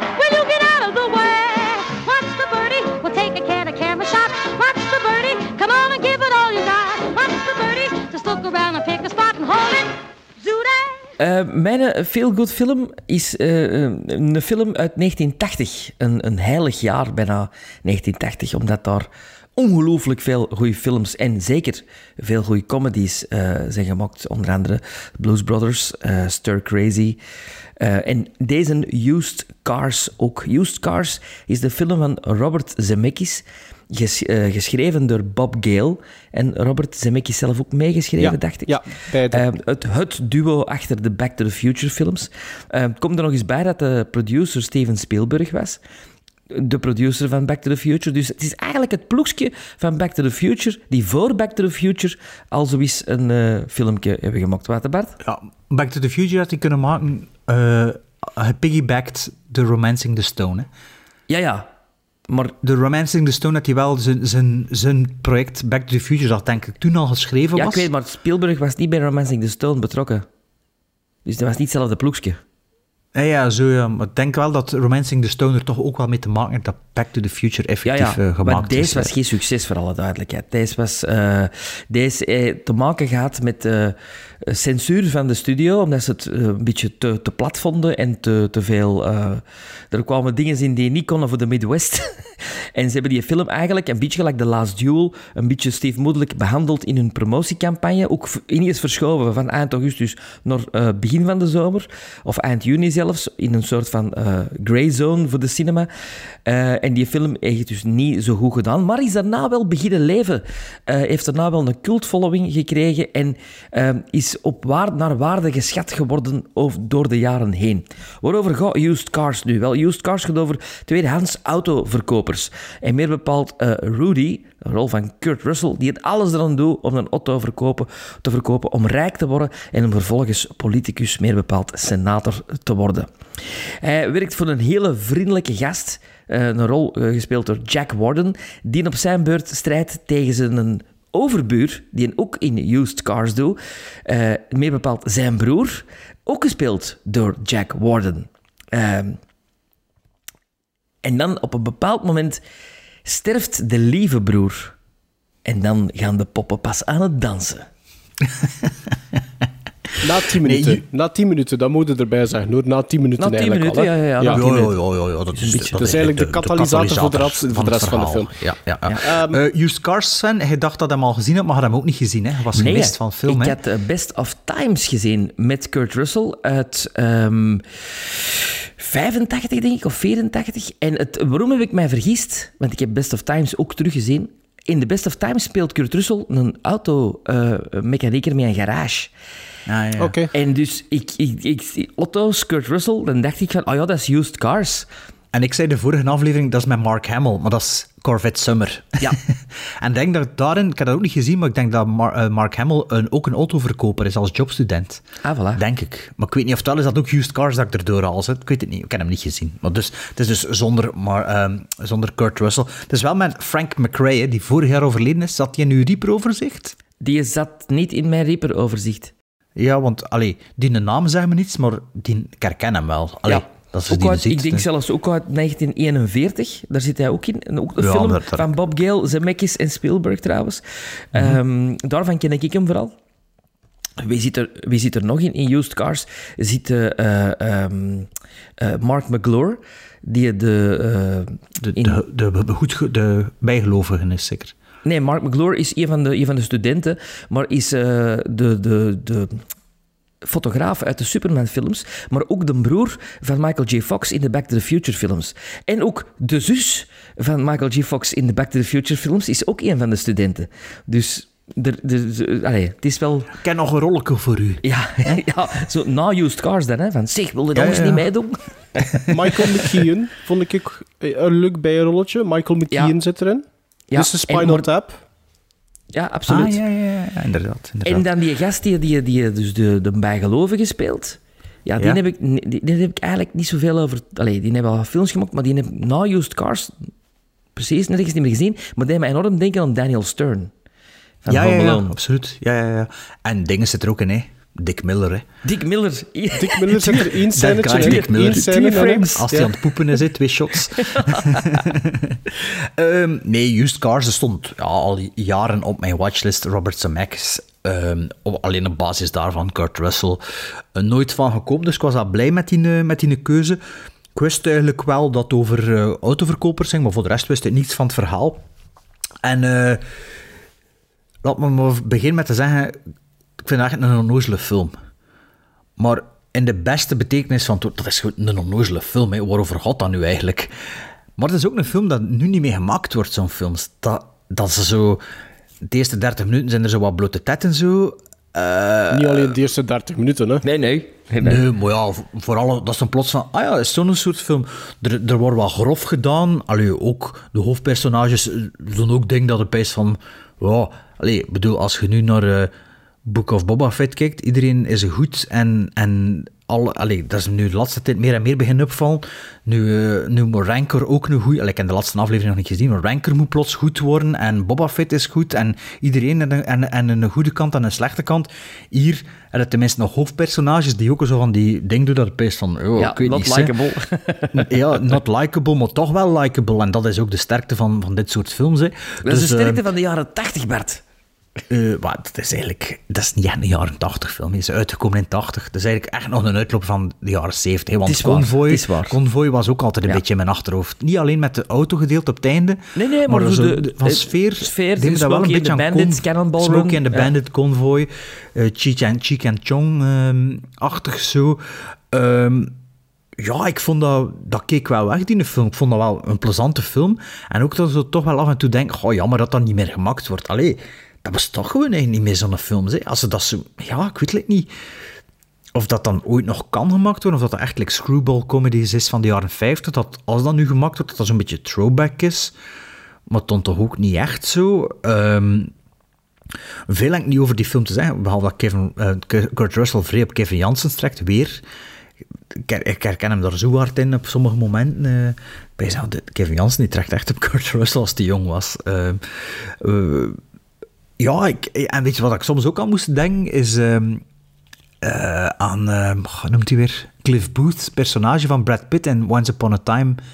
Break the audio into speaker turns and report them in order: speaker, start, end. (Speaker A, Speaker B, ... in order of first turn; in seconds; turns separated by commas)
Speaker A: 0.2-11.1, Speaker B: 11.2-27.2, Speaker B: 27.8-38.8, Speaker C: 38.2-39.5, Speaker B: 39.3-45.8, Speaker B: 46.5-55.1, Speaker D: 55.2-60.7, Speaker B: 61.3-61.7, Speaker B: 62.3-62.5, Speaker D: 62.6-67.9, Speaker B: 67.5-70.2, Speaker B: 71.2-72.4, Speaker D: 73.1-79.1, Speaker B: 77.8-105.9, Speaker B: 106.4-149.2, Speaker B: 151.0-152.4, Speaker B: 153.0-154.8, Speaker B: 155.4-157.7, Speaker D: 158.2-159.2, Speaker C: 160.0-164.4, Speaker D: 160.4-160.8, Speaker B: 163.2-164.7, Speaker D: 164.3-173.6, Speaker B: 165.3-165.8, Speaker C: 165.7-168.3, Speaker C: 169.0-169.4, Speaker B: 172.5-189.1, Speaker D: 189.7-190.1, Speaker C: 190.0-190.3, Speaker B: 190.3-194.9, Speaker D: 195.3-205.0, Speaker B: 205.2-205.6, Speaker D: 205.5-216.7, Speaker B: 217.0-219.1, Speaker D: 219.6-224.7, Speaker B: 223.2-232.9, Speaker D: 227.8-228.5, Speaker D: 231.1-231.4, Speaker B: 234.0-238.1, Speaker B: 238.6-242.0, Speaker D: 241.6-244.5, Speaker B: 244.8-249.4, Speaker B: 250.2-263.3, Speaker D: 263.3-265.2, Speaker B: 264.6-269.0, Speaker D: 267.5-268.1, Speaker C: 269.1-275.0, Speaker B: 273.9-274.7, Speaker B: 275.9-276.6, Speaker D: 276.3-278.1, Speaker B: 277.8-286.7, Speaker B: 287.6-290.5, Speaker B: 291.2-291.9, Speaker D: 291.3-295.2, Speaker B: 295.4-299.2, Speaker C: 296.4-299.5, Speaker D: 297.3-310.2, Speaker B: 300.8-301.6, Speaker D: 310.7-313.6, Speaker D: 314.1-318.4, Speaker D: 319.2-319.8, Speaker D: 321.2-322.8, Speaker D: 323.4-324.7, Speaker D: 325.8-330.5, Speaker D: 331.2-335.0, Speaker D: 335.6-339.3, Speaker C: 338.9-340.4, Speaker B: 340.4-341.4, Speaker D: 341.2-352.5, Speaker D: 353.0-373.5, Speaker B: 372.8-374.9, Speaker D: 374.3-379.6, Speaker B: 379.0-380.8, Speaker D: 381.5-402.5, Speaker B: 387.8-388.9, Speaker B: 392.8-397.1, Speaker D: 403.2-414.5, Speaker D: 415.5-422.3, Speaker D: 423.1-425.5, Speaker D: 426.7-431.4, Speaker D: 432.3-440.2, Speaker D: 441.0-444.0, Speaker D: 444.8-450.0